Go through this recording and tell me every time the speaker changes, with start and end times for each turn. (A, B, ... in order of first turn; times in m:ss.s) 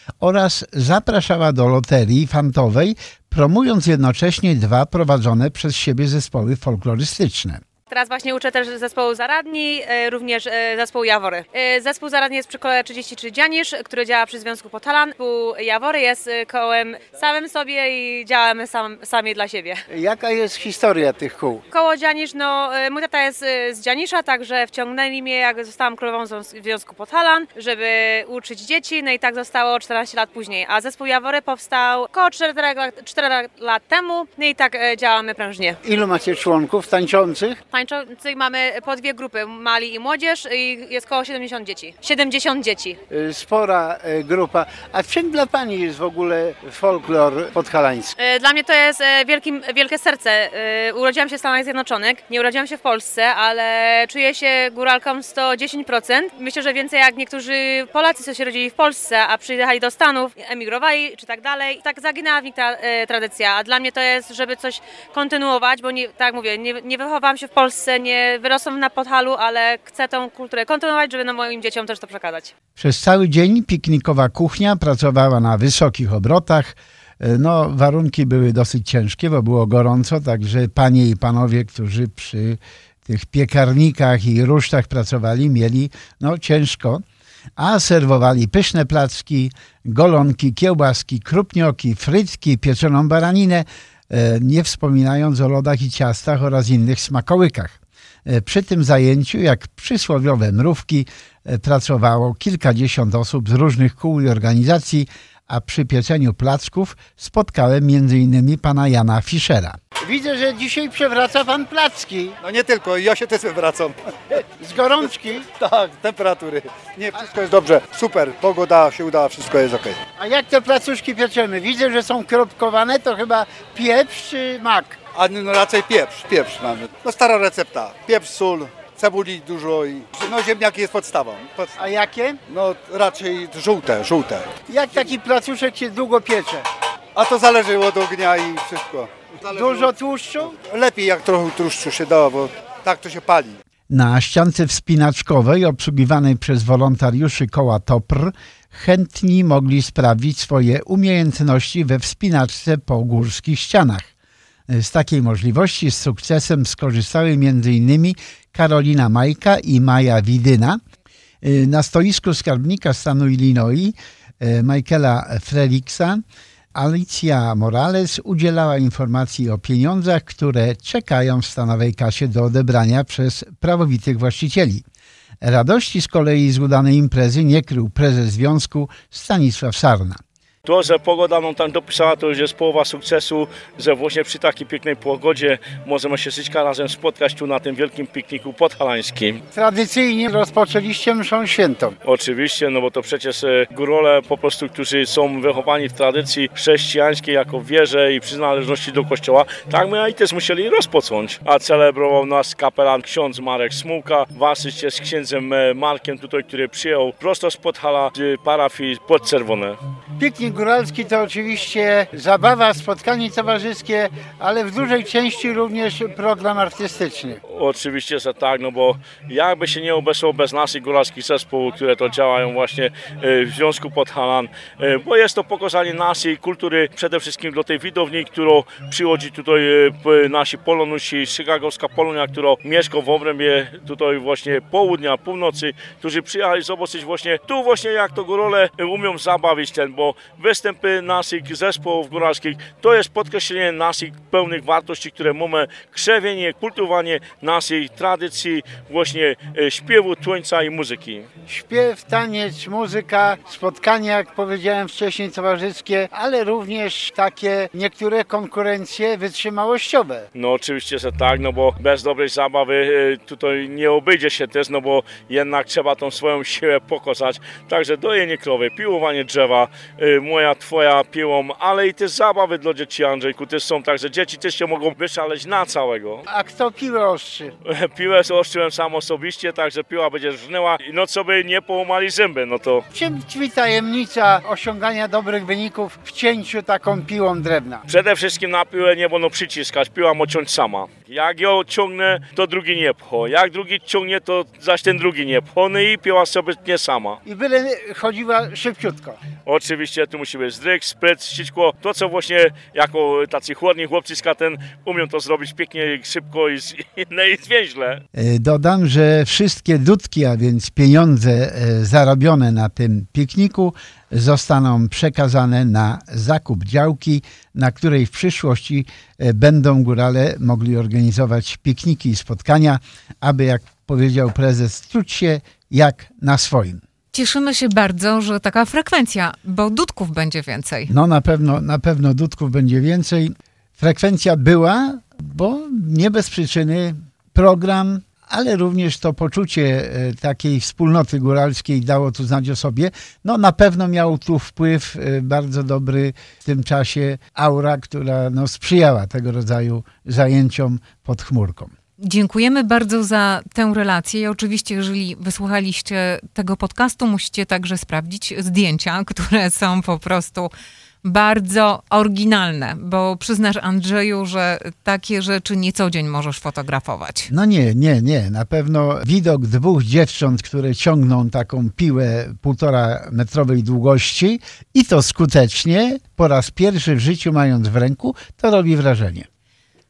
0:00.2-0:07.6 A
0:07.9-0:19.8 B
0:19.9-0:21.6 A
0:21.7-0:35.8 B
0:35.8-0:37.6 A
0:37.7-0:43.0 B
0:43.1-0:48.2 A
0:48.2-1:12.5 B
1:12.8-1:27.0 A
1:27.6-1:52.4 A
1:52.4-1:54.0 C
1:54.6-1:55.5 A
1:55.6-2:00.0 C
2:00.2-2:05.0 A
2:05.2-2:11.8 C
2:11.8-2:12.4 A
2:12.5-2:14.5 C
2:14.7-2:16.7 A
2:17.2-2:19.9 C
2:19.5-2:20.6 A
2:20.5-2:23.6 C
2:23.9-2:34.1 A
2:34.7-2:40.8 A
2:41.4-2:46.2 A
2:46.7-2:54.8 A
2:55.4-3:00.2 A
3:00.6-3:09.4 D
3:09.5-3:12.0 A
3:12.0-3:29.8 D
3:30.2-3:37.4 A
3:37.5-4:11.3 D
4:11.5-4:20.3 A
4:20.4-4:36.2 D
4:36.3-4:37.5 A
4:37.7-4:42.8 D
4:42.9-4:47.8 A
4:47.9-4:57.2 D
4:57.3-4:59.2 A
4:59.5-5:08.0 D
5:08.1-5:26.8 A
5:27.1-5:30.9 E
5:30.9-5:51.7 A
5:52.0-6:00.5 E
6:01.0-6:07.3 E
6:07.3-6:19.3 A